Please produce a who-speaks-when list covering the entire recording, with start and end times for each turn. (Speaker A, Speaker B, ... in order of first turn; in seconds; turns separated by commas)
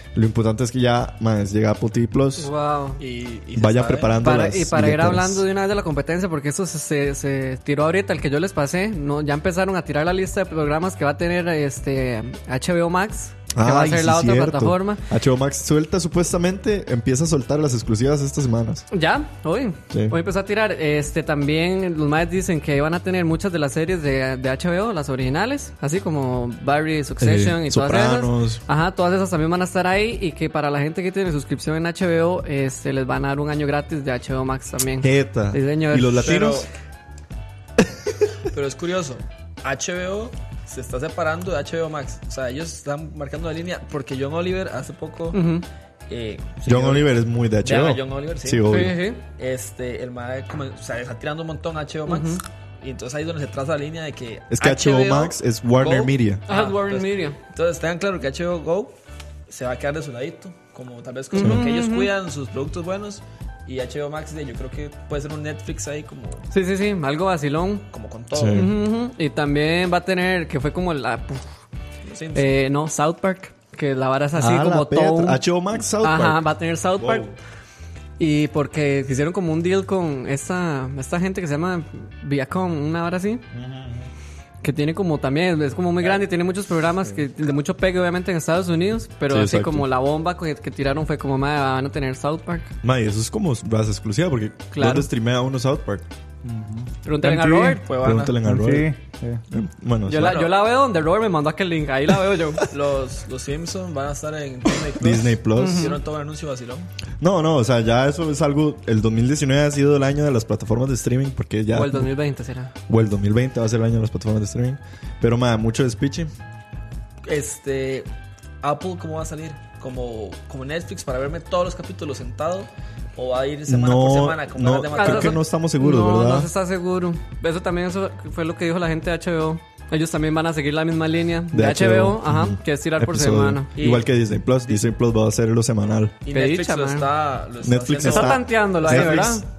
Speaker A: 0.1-2.5, Speaker B: 2.4-3.0, Speaker C: 3.0-4.2, Speaker A: 3.5-5.4, Speaker B: 4.2-15.0, Speaker A: 13.5-18.8, Speaker B: 18.9-36.3, Speaker A: 19.9-20.2, Speaker A: 27.2-28.6, Speaker A: 35.0-36.7, Speaker C: 36.2-36.7, Speaker A: 37.8-38.1, Speaker C: 38.5-45.4, Speaker B: 45.3-45.6, Speaker C: 46.1-58.9, Speaker A: 46.6-49.0, Speaker B: 48.7-49.2, Speaker B: 52.1-52.4, Speaker A: 54.5-56.4, Speaker B: 56.5-57.4, Speaker C: 59.5-66.4, Speaker B: 61.3-62.1, Speaker B: 66.5-67.8, Speaker C: 67.9-68.7, Speaker A: 68.3-68.7, Speaker B: 68.5-71.5, Speaker C: 72.0-72.5, Speaker B: 72.3-75.4, Speaker A: 74.3-76.4, Speaker B: 76.0-77.3, Speaker B: 78.2-83.4, Speaker A: 83.5-84.0, Speaker B: 84.6-92.7, Speaker C: 86.0-86.3, Speaker A: 89.3-89.9, Speaker A: 92.8-96.0, Speaker B: 94.7-95.1, Speaker D: 96.4-97.8, Speaker B: 97.0-97.8, Speaker C: 97.8-98.4, Speaker A: 98.0-98.9, Speaker D: 98.4-99.4, Speaker A: 99.5-100.4, Speaker B: 100.1-102.7, Speaker C: 100.1-100.7, Speaker C: 102.7-106.9, Speaker A: 105.0-105.9, Speaker B: 105.5-106.0, Speaker A: 107.2-112.1, Speaker B: 111.7-112.7, Speaker A: 112.9-116.3, Speaker C: 117.2-118.1, Speaker C: 118.6-125.4, Speaker A: 123.7-126.5, Speaker B: 124.9-133.7, Speaker A: 131.5-136.2, Speaker C: 133.8-134.1, Speaker C: 136.2-139.4, Speaker B: 136.3-137.1, Speaker A: 137.6-139.3, Speaker B: 138.0-139.4